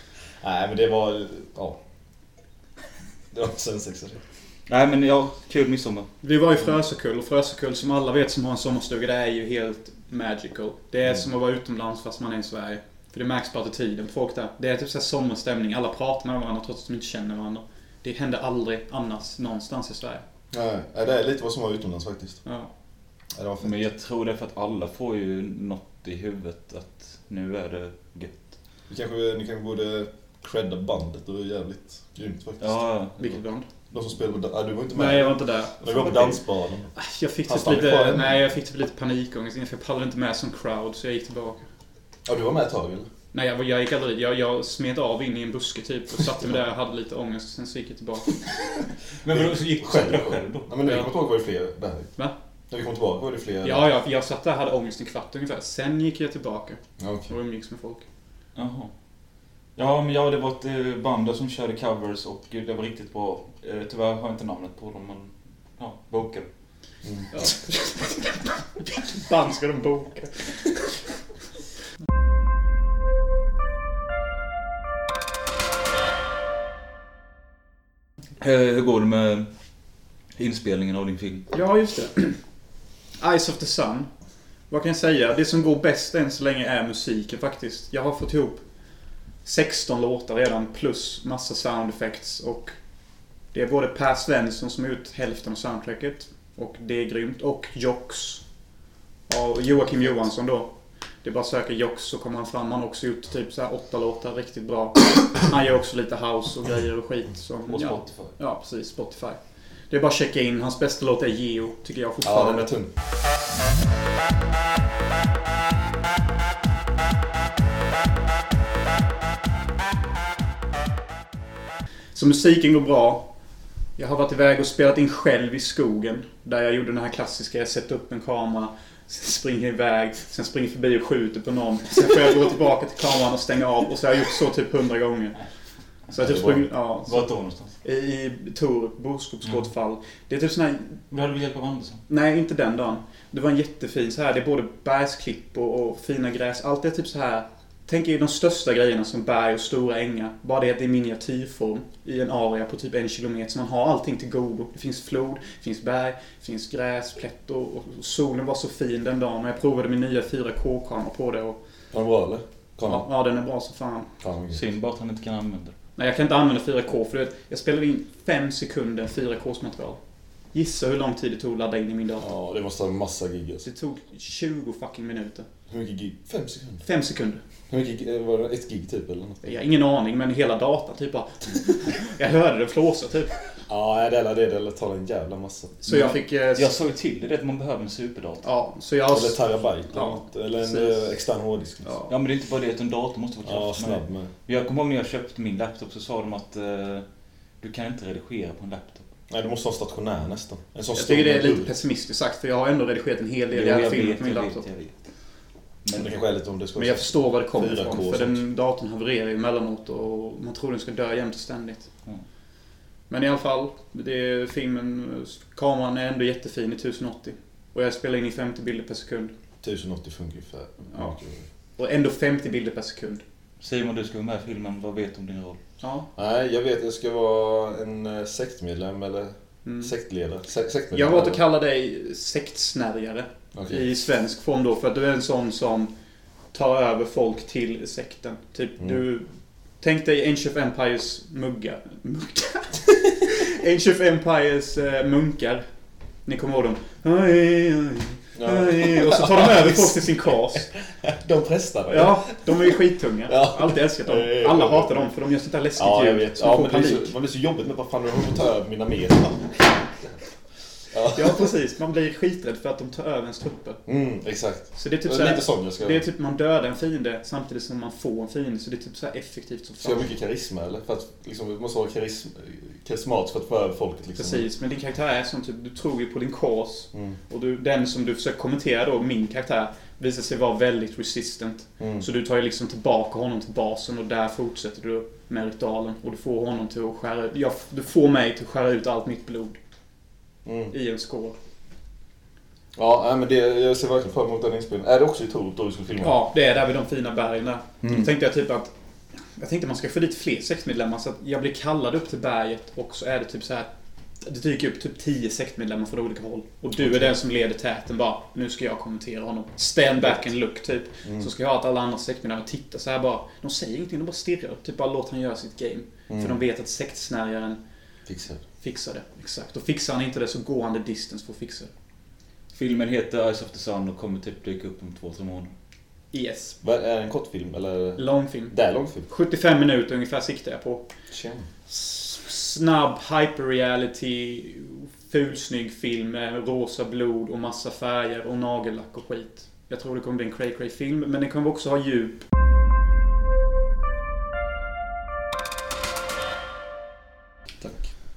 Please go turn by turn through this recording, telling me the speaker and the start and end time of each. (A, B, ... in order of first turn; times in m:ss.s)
0:00.4-0:01.8 A
0:03.3-0:04.2 A
0:04.7-0:06.1 B
0:06.2-0:20.2 C
0:20.5-0:22.4 A
0:22.4-0:22.7 C
0:23.4-0:23.8 A
0:23.6-0:28.4 B
0:28.9-0:32.8 A
0:32.6-0:33.3 B
0:33.2-0:33.7 C
0:33.9-0:36.9 A
0:34.9-0:41.6 C
0:37.5-0:38.4 A
0:42.2-0:43.1 A
0:43.3-0:48.3 C
0:48.5-0:50.7 B
0:49.3-0:52.1 A
0:52.7-0:53.9 A
0:53.6-0:58.0 C
0:57.0-0:57.3 A
0:58.6-0:58.9 B
0:59.8-1:06.5 B
1:07.0-1:07.3 A
1:07.3-1:11.0 C
1:18.4-1:19.5 B
1:20.4-1:21.5 B
1:21.5-1:22.4 C
1:23.2-1:24.1 C
1:24.7-1:28.6 C
1:29.4-1:32.8 C
1:33.5-1:38.4 C
1:39.3-1:40.7 C
1:41.2-1:49.4 C
1:47.7-1:48.3 B
1:49.9-1:52.7 C
1:52.2-1:52.9 A
2:02.1-2:03.3 C
2:04.0-2:15.4 C
2:16.1-2:17.3 C
2:16.2-2:16.6 A
2:17.0-2:17.7 B
2:17.8-2:21.0 C
2:21.1-2:22.0 B
2:22.1-2:41.6 C
2:41.9-2:43.0 A
2:42.9-2:44.1 C
2:44.2-2:44.6 A
2:44.5-2:45.8 B
2:46.0-2:50.0 C
2:50.5-2:52.3 C
2:52.2-2:53.6 A
2:53.6-2:55.5 C
2:55.7-2:56.8 A
2:56.8-2:57.4 C
2:57.7-2:59.4 A
2:59.4-3:03.4 C
3:03.7-3:05.8 A
3:05.8-3:06.7 C
3:05.9-3:08.5 B
3:08.4-3:11.1 C
3:09.1-3:11.9 A
3:11.8-3:12.1 C
3:12.1-3:17.0 B
3:13.4-3:14.3 A
3:17.6-3:19.1 B
3:19.3-3:21.7 A
3:20.9-3:24.6 C
3:23.5-3:25.0 B
3:25.8-3:26.1 B
3:25.9-3:28.4 A
3:26.8-3:31.9 C
3:33.1-3:39.3 C
3:39.6-3:41.4 A
3:41.8-3:43.2 C
3:43.6-3:45.6 B
3:45.8-3:46.1 C
3:46.2-3:51.4 A
3:49.6-3:49.9 C
3:50.9-3:55.9 C
3:53.5-3:53.8 A
3:56.5-3:59.2 C
3:59.8-4:05.6 C
4:06.2-4:10.7 C
4:08.4-4:12.7 A
4:11.9-4:17.1 C
4:13.3-4:14.9 A
4:15.8-4:19.8 A
4:20.9-4:21.5 A
4:21.1-4:23.8 C
4:23.9-4:26.0 A
4:24.8-4:30.1 C
4:29.8-4:34.4 A
4:34.2-4:49.6 C
4:41.8-4:42.0 A
4:50.4-4:50.7 A
4:50.7-4:51.4 C
4:52.8-4:56.2 A
4:56.0-4:58.7 C
4:57.8-4:58.1 A
4:59.4-5:03.7 C
5:04.2-5:17.6 C
5:06.8-5:07.1 A
5:11.0-5:11.3 A
5:16.1-5:16.4 A
5:18.1-5:18.4 A
5:18.6-5:21.7 C
5:22.5-5:25.5 B
5:26.1-5:26.6 C
5:26.6-5:29.1 A
5:28.0-5:28.5 C
5:29.1-5:30.8 C
5:31.1-5:31.5 A
5:31.7-5:42.2 C